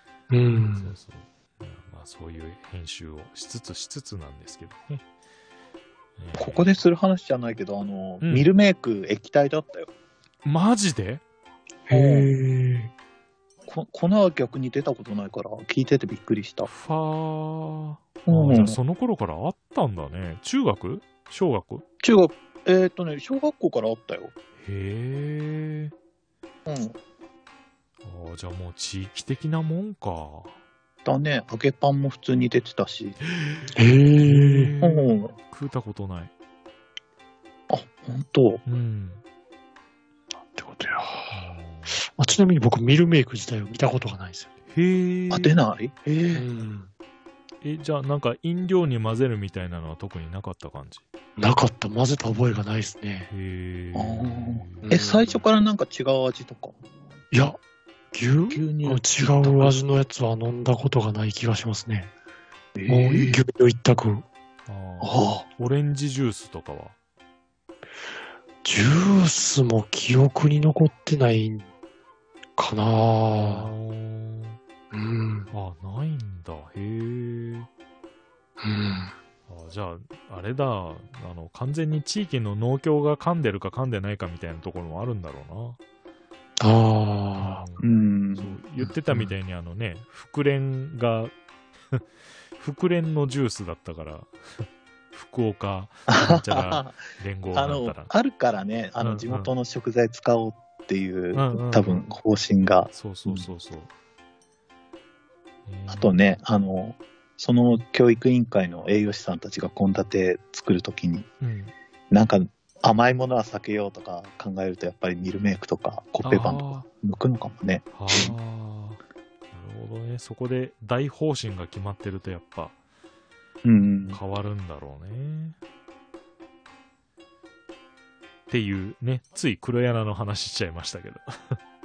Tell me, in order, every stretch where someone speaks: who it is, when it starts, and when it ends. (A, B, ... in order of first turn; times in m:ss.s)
0:00.3-0:01.0 A
0:00.8-0:05.0 B
0:06.2-0:06.7 B
0:06.4-0:09.9 C
0:08.2-0:08.5 B
0:10.4-0:11.2 B
0:11.9-0:12.9 A
0:11.9-0:12.3 C
0:13.7-0:16.7 C
0:16.7-0:21.8 B
0:18.3-0:18.8 C
0:22.0-0:24.3 C
0:24.6-0:25.9 B
0:26.7-0:27.0 C
0:28.0-0:30.6 B
0:31.0-0:33.2 C
0:33.4-0:33.7 B
0:33.8-0:34.7 A
0:34.2-0:36.3 B
0:34.8-0:35.3 C
0:37.7-0:38.6 C
0:38.7-0:39.2 B
0:40.5-0:41.4 A
0:41.3-0:42.0 B
0:42.0-0:44.5 A
0:44.7-0:45.6 B
0:45.3-0:46.5 C
0:46.3-0:46.9 A
0:47.6-0:51.0 B
0:51.4-0:53.3 A
0:53.3-0:55.0 B
0:54.0-0:56.8 C
0:54.8-0:55.4 A
0:57.3-0:57.6 A
0:58.1-1:02.1 A
0:58.5-0:59.8 C
1:02.8-1:03.4 C
1:02.9-1:04.3 A
1:04.7-1:07.0 B
1:05.0-1:05.5 C
1:08.6-1:11.7 A
1:12.6-1:13.7 A
1:13.4-1:14.6 B
1:14.9-1:15.5 A
1:15.5-1:17.7 B
1:18.6-1:19.1 A
1:19.5-1:25.8 B
1:26.6-1:27.6 A
1:27.4-1:31.3 B
1:27.8-1:28.6 C
1:28.8-1:29.3 A
1:32.6-1:38.1 B
1:36.1-1:37.0 C
1:37.5-1:43.5 C
1:39.0-1:39.5 B
1:41.3-1:42.1 B
1:42.9-1:43.9 B
1:45.7-1:46.2 B
1:45.9-1:51.3 C
1:51.4-1:51.7 B
1:52.1-1:58.3 C
1:56.2-1:56.9 B
1:57.9-1:59.0 B
1:59.5-2:02.8 B
2:03.6-2:04.2 C
2:04.1-2:05.6 B
2:08.5-2:11.6 B